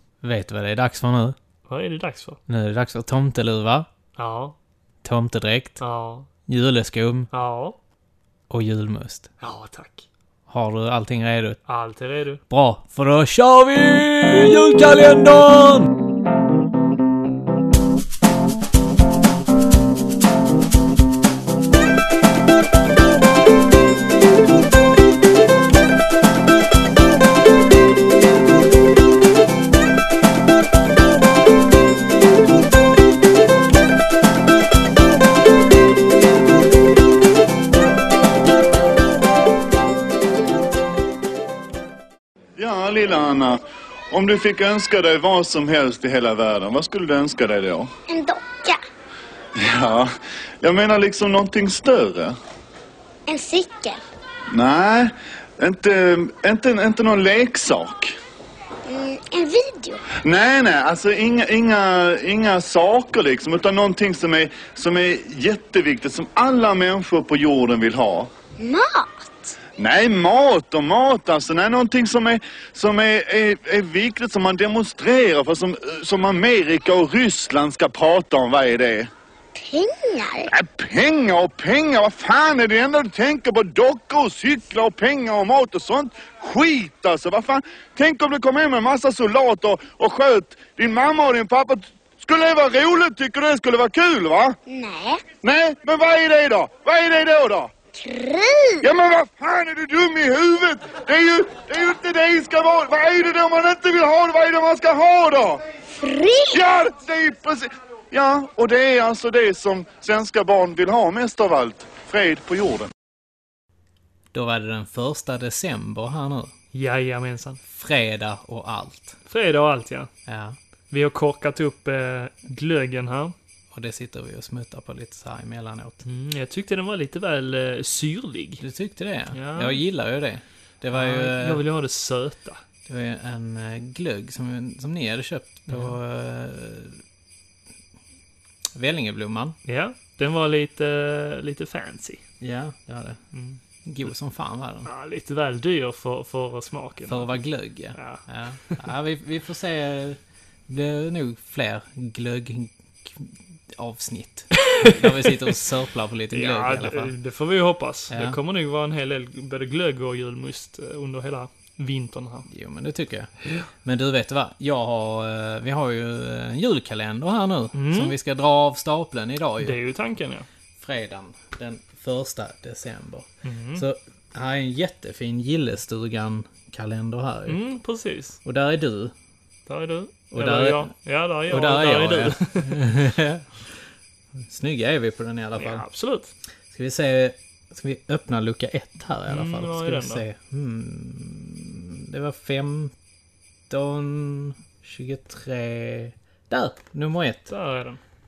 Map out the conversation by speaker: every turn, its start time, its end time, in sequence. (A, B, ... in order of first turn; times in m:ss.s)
0:00.2-0:01.4 A
0:01.6-0:02.4 B
0:02.5-0:03.8 A
0:04.2-0:04.6 B
0:05.0-0:05.8 A
0:05.8-0:06.3 B
0:06.5-0:07.3 A
0:07.3-0:07.8 B
0:08.5-0:09.3 A
0:09.4-0:10.0 B
0:10.5-0:11.6 A
0:11.7-0:12.4 B
0:12.5-0:16.0 A
0:42.6-0:47.9 C
0:48.1-0:48.8 D
0:49.6-0:50.1 C
0:50.6-0:52.3 C
0:53.3-0:54.0 D
0:54.5-0:58.1 C
0:58.8-1:00.0 D
1:00.1-1:08.3 C
1:08.6-1:09.5 D
1:09.8-1:19.1 C
1:19.6-1:20.5 D
1:20.5-1:34.6 C
1:34.7-1:35.2 D
1:35.2-1:37.7 C
1:37.9-1:38.8 D
1:38.8-1:45.6 C
1:46.0-1:46.6 D
1:46.5-1:52.9 C
1:54.3-1:56.5 A
1:56.7-1:57.6 B
1:57.7-1:59.2 A
1:59.3-2:00.1 B
2:00.3-2:00.6 A
2:00.9-2:03.3 B
2:03.7-2:06.0 A
2:06.0-2:08.6 B
2:08.6-2:11.6 A
2:09.3-2:09.8 B
2:10.9-2:12.6 B
2:12.8-2:17.0 A
2:15.7-2:16.0 B
2:18.8-2:19.6 A
2:19.6-2:22.2 B
2:22.4-2:23.2 A
2:23.3-2:23.6 B
2:23.8-2:24.9 A
2:24.8-2:27.4 B
2:27.1-2:37.1 A
2:27.9-2:28.9 B
2:34.8-2:35.0 B
2:36.3-2:42.5 B
2:38.1-2:38.4 A
2:42.5-2:43.3 A
2:43.8-2:49.8 A
2:47.7-2:48.2 B
2:49.6-2:50.5 B
2:50.8-2:57.6 A
2:53.4-2:53.8 B
2:57.5-2:58.4 B
2:58.4-2:59.1 A
2:59.7-3:02.9 B
3:00.3-3:00.9 A
3:01.4-3:03.5 A
3:04.5-3:05.8 A
3:05.6-3:06.3 B
3:06.7-3:12.9 A
3:09.3-3:10.2 B
3:13.7-3:17.5 A
3:17.5-3:18.0 B